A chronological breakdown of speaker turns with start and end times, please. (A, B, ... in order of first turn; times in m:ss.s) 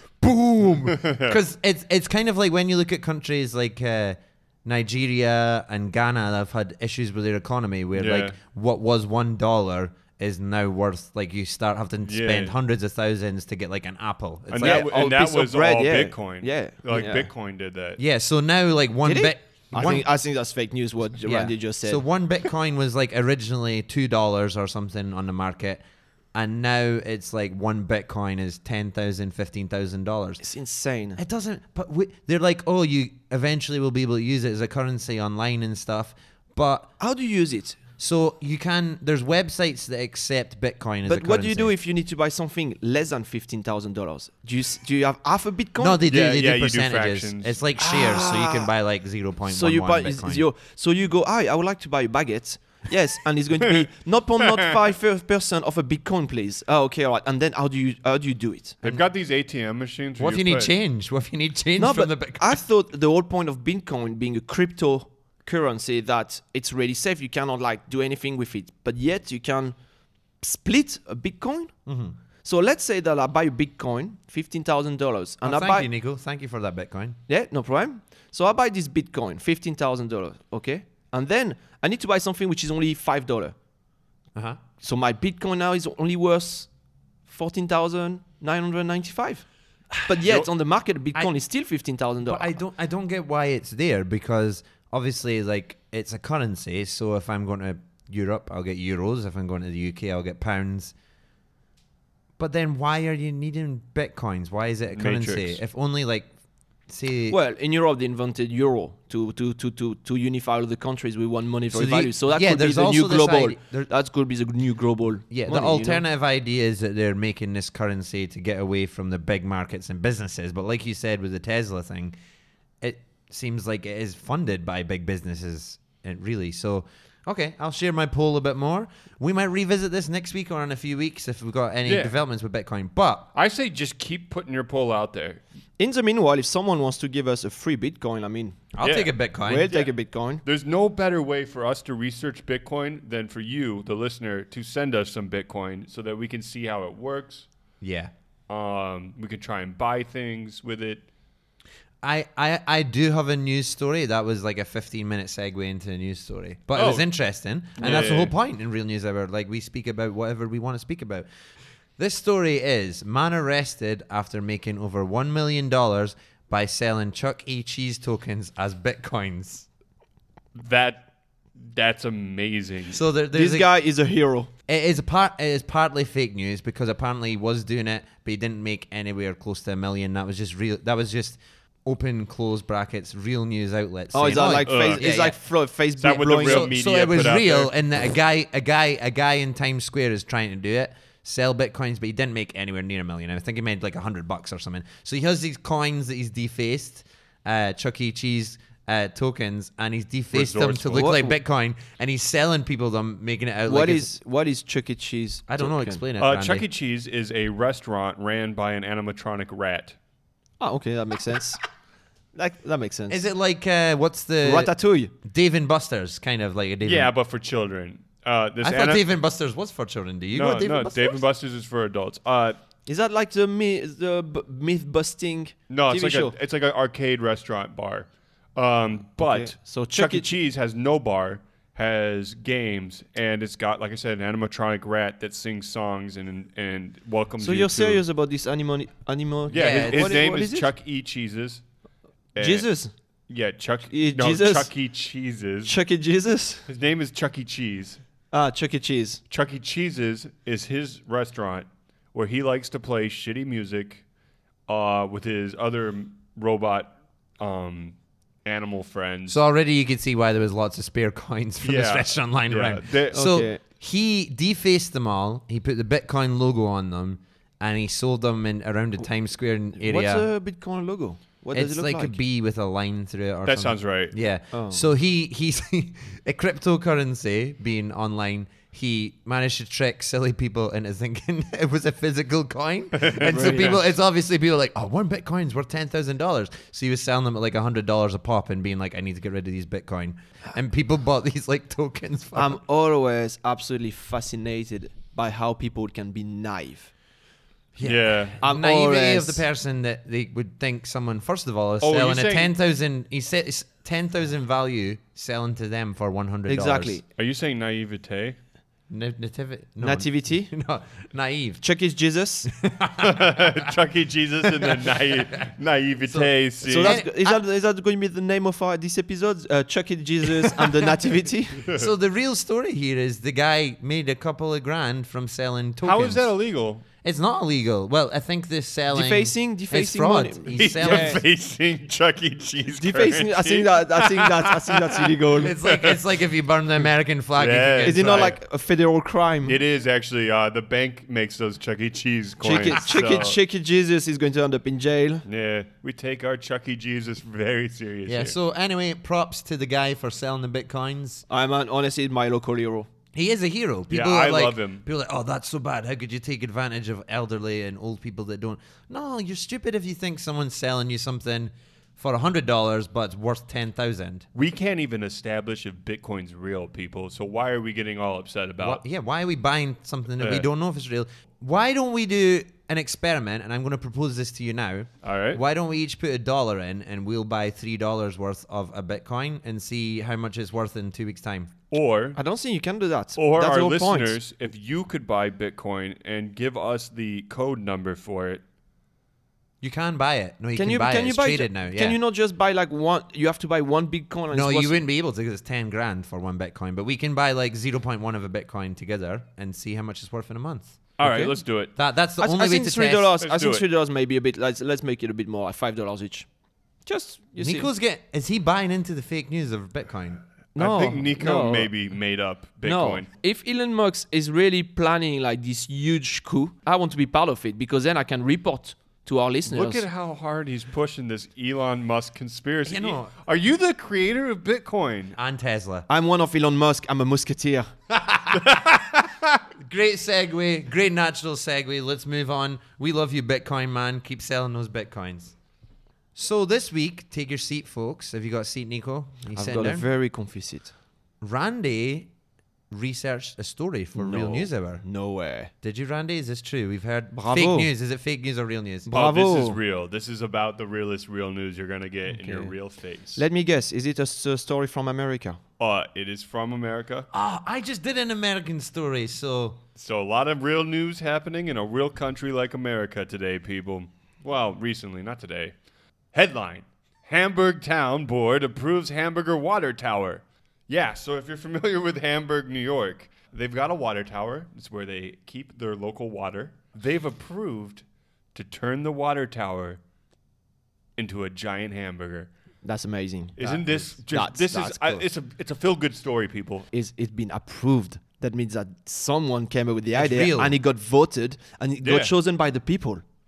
0:00.2-0:14.9 A
0:00.8-0:01.4 B
0:08.0-0:08.4 B
0:12.0-0:12.5 B
0:14.5-0:18.0 B
0:14.6-0:17.3 C
0:18.0-0:20.0 A
0:19.0-0:22.0 C
0:21.2-0:30.4 A
0:30.4-0:31.2 C
0:31.2-0:36.9 A
0:37.0-0:37.8 C
0:38.0-0:41.7 A
0:41.1-0:46.0 C
0:45.8-0:50.4 A
0:46.1-0:47.6 B
0:47.8-0:48.7 C
0:49.4-0:58.8 C
0:58.8-1:00.7 B
1:00.2-1:02.6 A
1:01.8-1:09.8 C
1:10.4-1:11.7 C
1:11.9-1:12.2 A
1:12.4-1:15.9 C
1:15.4-1:17.2 A
1:17.3-1:23.5 C
1:24.3-1:24.6 A
1:24.8-1:26.7 C
1:27.3-1:29.4 C
1:30.0-1:32.6 C
1:32.2-1:40.9 A
1:42.4-1:46.3 A
1:44.9-1:45.6 B
1:46.9-1:47.4 A
1:47.3-1:56.0 C
1:51.7-1:53.9 A
1:55.3-2:02.1 A
2:02.8-2:13.3 A
2:11.9-2:12.1 B
2:13.3-2:15.4 B
2:15.8-2:18.8 C
2:18.8-2:19.7 A
2:18.8-2:19.1 B
2:19.4-2:20.4 C
2:19.7-2:19.9 B
2:20.4-2:27.5 B
2:27.8-2:28.1 A
2:28.5-2:31.0 B
2:32.0-2:41.2 A
2:36.8-2:37.1 B
2:37.8-2:38.3 B
2:42.0-2:49.6 A
2:50.5-2:53.0 B
2:52.9-2:53.7 A
2:53.3-2:54.5 C
2:54.7-3:05.4 A
3:04.1-3:06.7 C
3:04.6-3:05.1 B
3:06.0-3:07.7 B
3:06.4-3:24.1 A
3:20.3-3:21.1 B
3:20.9-3:21.4 C
3:23.6-3:26.0 C
3:25.5-3:26.6 A
3:26.2-3:30.0 B
3:30.6-3:31.6 C
3:32.4-3:33.2 C
3:33.1-3:34.7 A
3:34.4-3:35.1 C
3:35.2-3:37.1 A
3:36.8-3:39.0 B
3:38.6-3:41.2 A
3:40.3-3:42.6 B
3:42.9-3:46.3 C
3:45.7-3:58.0 B
3:49.2-3:50.3 C
3:57.4-4:00.7 C
3:59.5-4:01.6 B
3:59.5-4:00.2 A
4:02.4-4:02.7 B
4:02.4-4:02.9 C
4:03.3-4:05.7 B
4:03.9-4:04.7 C
4:05.6-4:06.6 C
4:06.7-4:08.0 B
4:08.3-4:09.2 C
4:09.3-4:14.0 B
4:14.7-4:19.4 B
4:19.3-4:30.3 A
4:21.6-4:23.2 B
4:23.1-4:23.6 C
4:29.8-4:32.2 C
4:31.5-4:52.6 A
4:33.5-4:34.1 B
4:34.5-4:34.9 C
4:42.9-4:43.8 B
4:43.2-4:43.8 C
4:52.4-4:56.9 C
4:57.8-5:07.0 A
4:57.8-4:58.4 B
4:58.4-4:59.4 C
5:01.8-5:02.5 B
5:06.5-5:07.0 C
5:07.2-5:08.4 B
5:08.9-5:11.6 A
5:09.8-5:10.5 C
5:11.6-5:12.5 C
5:12.5-5:13.7 A
5:13.0-5:17.0 B
5:14.6-5:15.5 A
5:16.1-5:17.4 A
5:16.6-5:21.7 C
5:20.4-5:20.8 A
5:21.7-5:26.3 A
5:25.8-5:26.8 B
5:27.0-5:31.2 A
5:28.9-5:31.2 C
5:30.5-5:36.0 B
5:32.8-5:35.6 C
5:35.4-5:38.4 A
5:37.4-5:38.4 B
5:37.8-5:39.6 C
5:39.5-5:43.4 B
5:42.4-5:45.2 C
5:42.7-5:43.2 A
5:45.2-5:48.4 B
5:48.1-5:51.2 A
5:51.3-5:52.9 C
5:53.1-6:04.3 A
5:53.9-5:54.8 B
6:04.3-6:08.8 B
6:08.6-6:21.5 A
6:10.2-6:10.5 B
6:15.0-6:15.4 B
6:21.7-6:22.2 B
6:22.2-6:24.2 C
6:23.2-6:28.4 B
6:29.6-6:32.0 A
6:30.5-6:34.8 C
6:34.3-6:40.8 A
6:41.0-6:41.7 B
6:41.0-6:41.4 C
6:41.8-6:43.1 A
6:42.2-6:46.3 C
6:43.2-6:43.6 B
6:46.9-6:47.7 C
6:47.4-6:50.2 A
6:50.6-6:51.7 C
6:50.6-6:53.1 B
6:52.6-6:59.9 C
6:59.5-7:05.2 B
7:02.6-7:03.1 A
7:05.2-7:05.9 A
7:05.9-7:07.7 C
7:07.9-7:09.1 A
7:08.3-7:08.8 B
7:09.6-7:15.4 A
7:16.1-7:19.9 A
7:19.3-7:20.7 C
7:21.2-7:22.1 A
7:22.7-7:24.8 A
7:23.9-7:25.5 C
7:25.6-7:28.9 A
7:27.1-7:27.7 C
7:28.9-7:29.6 C
7:28.9-7:33.2 B
7:32.1-7:32.5 C
7:33.2-7:35.4 C
7:35.6-7:37.1 B
7:37.1-7:39.6 A
7:39.8-7:45.5 B
7:46.1-7:59.8 B
8:01.0-8:02.3 B
8:02.6-8:04.7 C
8:03.4-8:06.7 B
8:04.6-8:05.0 A
8:06.7-8:13.0 C
8:10.0-8:10.6 A
8:11.8-8:12.1 B